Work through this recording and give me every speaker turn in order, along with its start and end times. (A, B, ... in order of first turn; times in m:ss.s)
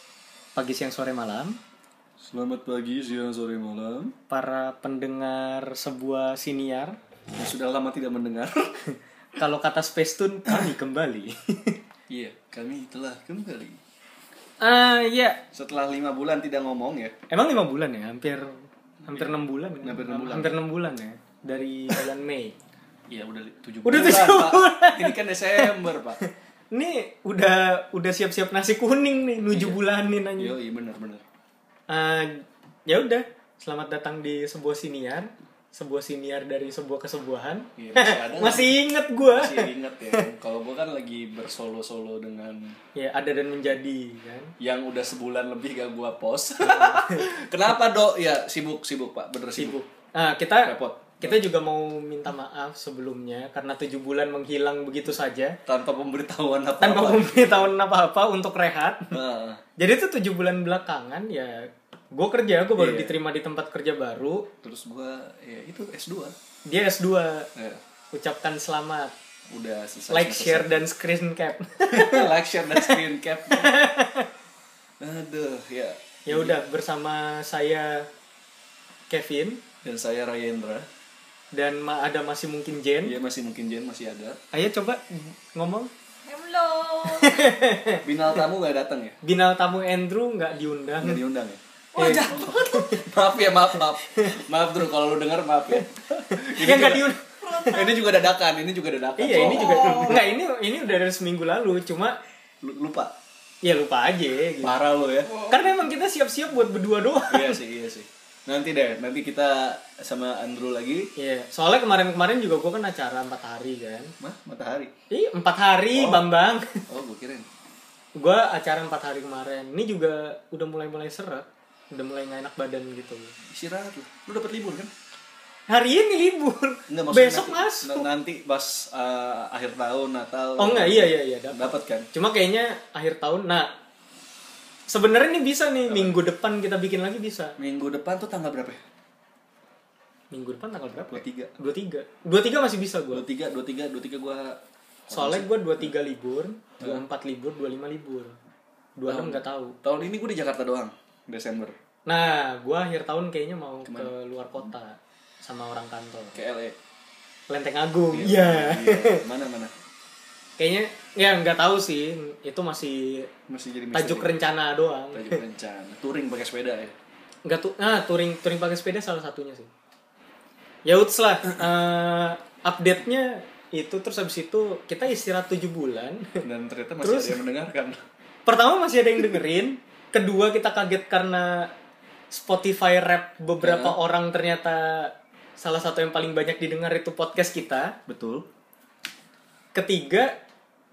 0:00.5-0:01.6 A
0:02.2-0:04.2 B
0:04.3-0:07.0 A
0:07.4-0:08.7 B
0:09.4-0:11.8 A
0:12.1-0:13.8 B
0:14.6-0:15.4 A
0:15.5-0:17.1 B
0:17.3-0:22.6 A
0:19.0-0:20.5 B
0:23.1-0:26.2 B
0:23.8-0:30.5 A
0:29.5-0:29.8 B
0:30.4-0:31.2 B
0:31.9-0:40.2 A
0:37.8-0:42.8 B
0:43.0-0:44.5 A
0:44.6-0:49.8 B
0:46.6-0:47.3 A
0:49.6-0:55.6 A
0:50.6-0:51.4 B
0:55.6-0:57.7 B
0:56.8-0:59.2 A
0:59.1-0:59.6 B
0:59.8-1:04.5 A
1:02.8-1:03.2 B
1:04.6-1:06.3 B
1:06.6-1:07.5 A
1:07.5-1:07.8 B
1:08.1-1:09.1 A
1:09.5-1:10.8 B
1:10.1-1:14.3 A
1:11.9-1:13.8 B
1:15.0-1:16.6 B
1:16.3-1:18.1 A
1:19.1-1:19.6 A
1:19.8-1:20.9 B
1:21.5-1:23.2 A
1:23.0-1:24.4 B
1:24.5-1:25.9 A
1:26.2-1:27.6 C
1:27.0-1:28.0 A
1:28.0-1:29.2 B
1:29.2-1:31.2 A
1:31.0-1:31.6 B
1:31.9-1:33.0 C
1:32.0-1:33.0 A
1:32.3-1:40.3 B
1:33.7-1:34.4 A
1:35.8-1:37.8 A
1:37.4-1:38.0 C
1:39.2-1:42.2 A
1:39.3-1:40.2 C
1:42.6-1:43.1 B
1:43.6-1:44.7 A
1:44.6-1:45.3 B
1:45.2-1:45.6 C
1:45.5-1:47.6 A
1:47.3-1:51.1 B
1:51.2-1:54.1 A
1:54.2-1:54.9 B
1:55.1-1:56.8 A
1:55.9-1:56.3 B
1:56.9-1:57.5 B
1:58.2-2:03.3 A
2:03.5-2:04.9 B
2:05.7-2:08.1 A
2:06.9-2:12.1 B
2:10.6-2:13.7 A
2:14.9-2:17.6 A
2:15.9-2:16.2 B
2:17.6-2:18.8 B
2:20.3-2:23.2 A
2:21.1-2:21.5 B
2:23.1-2:25.9 B
2:25.1-2:28.4 A
2:29.0-2:29.8 A
2:29.1-2:31.8 B
2:32.1-2:36.4 A
2:33.8-2:34.1 B
2:36.3-2:36.8 B
2:37.5-2:39.2 A
2:38.1-2:39.7 B
2:40.6-2:43.3 A
2:43.5-2:44.4 B
2:43.9-2:45.4 A
2:45.1-2:46.9 B
2:47.4-2:49.7 A
2:50.8-2:56.4 A
2:56.4-2:58.0 B
2:57.0-2:57.4 A
2:58.4-3:01.7 A
3:02.3-3:08.0 A
3:03.6-3:04.0 B
3:08.1-3:08.4 B
3:09.7-3:10.4 A